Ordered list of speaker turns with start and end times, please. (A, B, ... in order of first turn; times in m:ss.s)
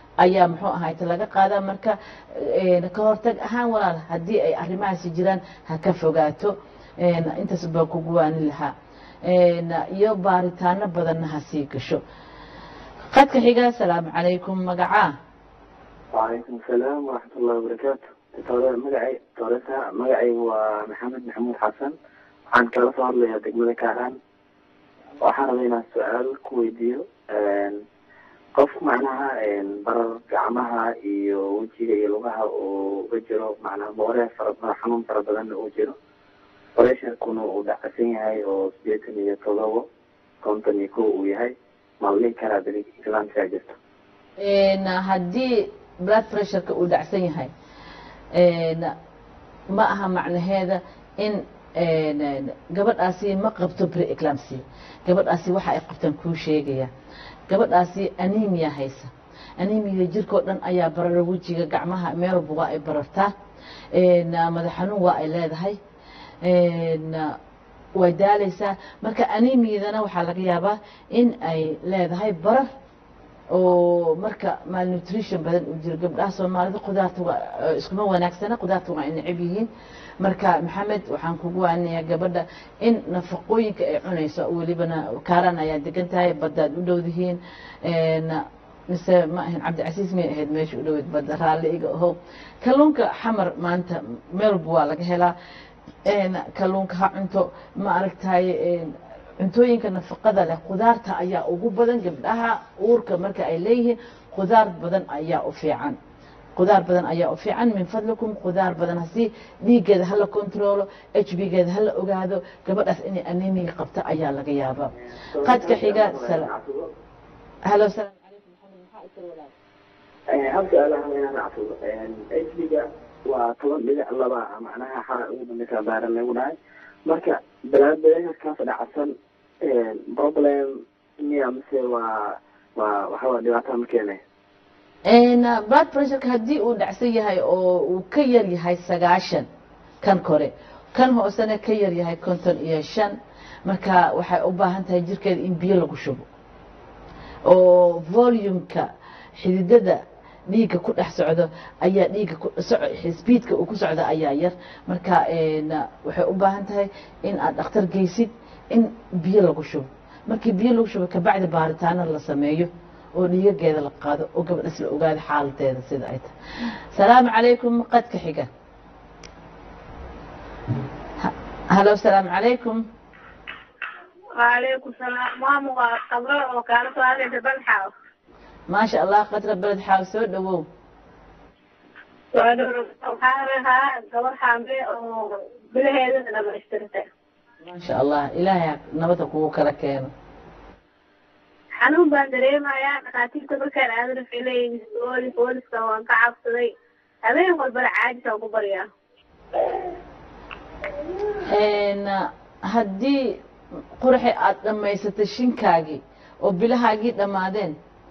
0:00.2-0:08.7 A
0:09.3-0:12.0 A
0:13.1-0:15.1 A
0:16.1-0:21.9 B
0:22.5-0:24.2 B
0:25.2-0:27.8 B
0:28.6-0:36.0 B
0:36.8-0:39.9 B
0:40.4-0:43.8 B
0:44.4-0:47.5 A
0:48.3-0:48.9 A
0:49.7-0:56.9 A
0:57.5-1:03.3 A
1:03.9-1:05.8 A
1:06.4-1:07.4 A
1:08.0-1:12.7 A
1:13.5-1:19.7 A
1:20.2-1:35.3 A
1:36.1-1:46.0 A
1:46.6-1:54.9 A
1:55.3-1:56.9 B
1:55.4-1:56.5 A
1:57.7-1:59.5 A
2:00.3-2:14.2 B
2:15.1-2:19.5 A
2:20.0-2:23.1 A
2:23.7-2:26.2 A
2:27.5-2:28.9 A
2:29.4-2:46.3 A
2:46.9-2:48.5 A
2:51.2-2:52.8 A
2:58.7-3:00.6 A
3:02.4-3:05.0 C
3:05.8-3:07.0 C
3:07.6-3:10.1 A
3:11.9-3:16.6 C
3:17.4-3:18.8 C
3:21.5-3:23.3 A
3:24.0-3:27.7 A